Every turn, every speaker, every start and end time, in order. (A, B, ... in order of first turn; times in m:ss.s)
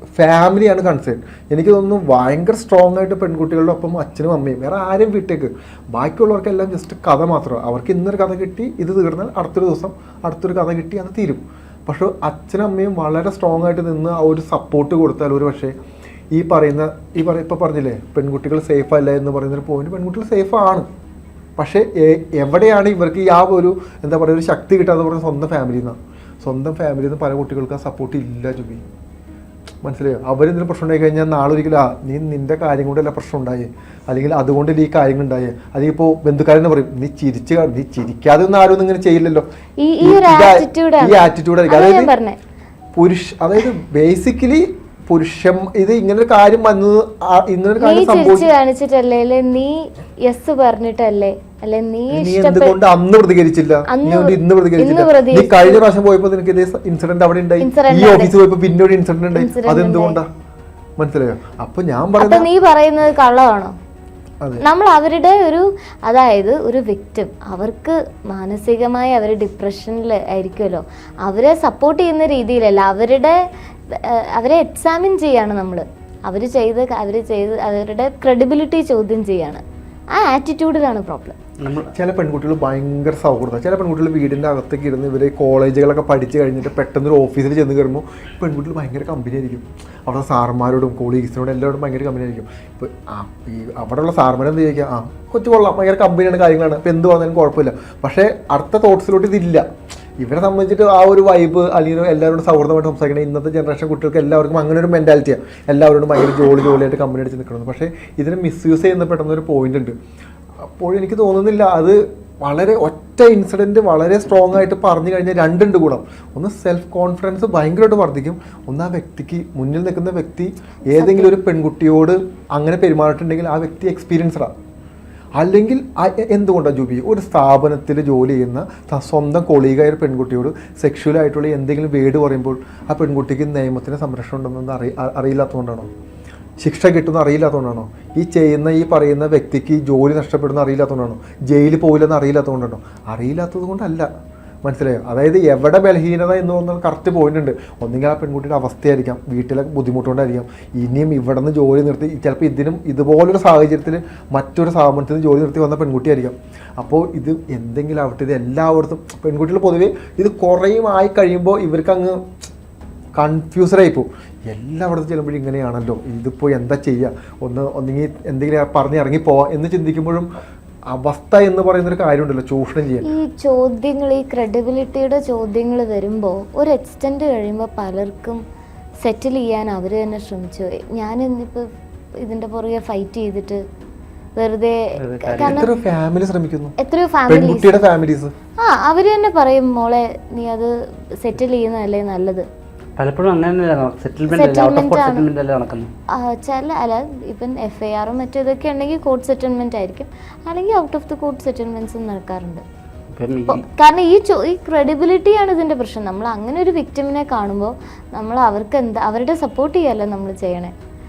0:00.2-0:15.7 A
0:16.3-0:20.9 A
0:21.6-0:28.8 A
0:29.8-0:39.4 A
0:39.8-0:42.4 B
0:40.0-0:42.1 A
0:42.9-0:48.5 A
0:47.8-0:52.8 B
0:52.1-1:00.3 A
0:53.9-0:55.8 B
0:57.6-0:58.3 B
0:59.3-1:00.2 B
1:01.0-1:02.5 A
1:02.2-1:03.7 B
1:04.6-1:13.4 B
1:13.9-1:21.4 B
1:21.6-1:21.9 C
1:21.9-1:39.6 A
1:40.2-1:50.0 A
1:50.6-2:04.5 A
2:01.0-2:01.3 B
2:05.4-2:15.9 A
2:16.6-2:24.1 A
2:24.6-2:42.3 A
2:43.2-2:50.3 A
2:50.9-2:53.1 A
2:53.0-2:58.4 B
2:59.0-3:01.7 B
3:02.2-3:03.6 B
3:04.4-3:05.7 B
3:05.0-3:05.6 C
3:05.4-3:06.8 A
3:06.8-3:07.7 B
3:07.3-3:08.3 A
3:08.6-3:12.5 B
3:13.0-3:15.9 C
3:14.3-3:15.3 B
3:16.1-3:22.6 B
3:23.1-3:23.6 C
3:23.5-3:30.7 B